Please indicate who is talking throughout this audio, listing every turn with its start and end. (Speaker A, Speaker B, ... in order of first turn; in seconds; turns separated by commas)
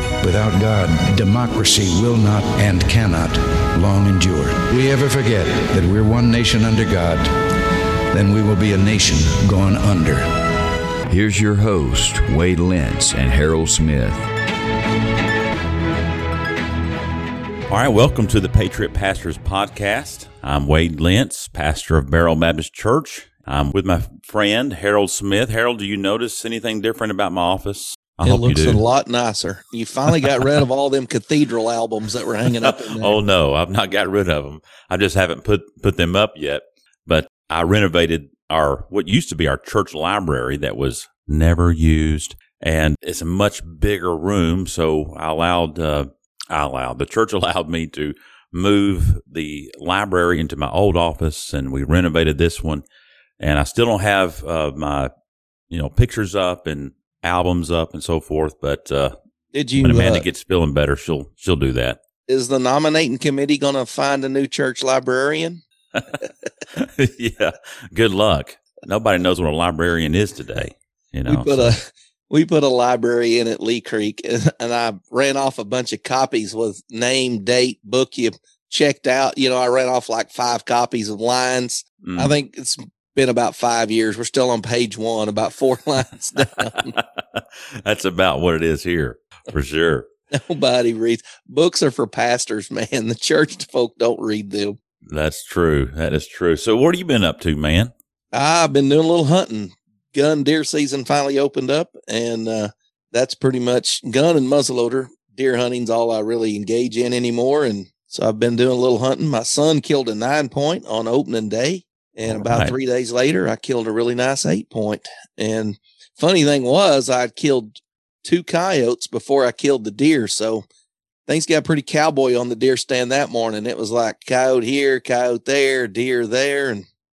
Speaker A: 0.2-10.5, Speaker B: 11.1-14.3, Speaker C: 17.7-28.8, Speaker D: 28.2-33.2, Speaker C: 32.6-52.8, Speaker C: 53.4-55.1, Speaker C: 55.7-59.1, Speaker D: 59.5-60.2, Speaker C: 59.8-62.0, Speaker D: 62.3-65.6, Speaker C: 66.8-71.7, Speaker D: 71.3-86.9, Speaker C: 82.0-82.3, Speaker C: 86.9-90.1, Speaker D: 90.3-94.8, Speaker C: 95.1-97.9, Speaker D: 98.3-120.6, Speaker C: 112.2-112.7, Speaker D: 121.3-126.8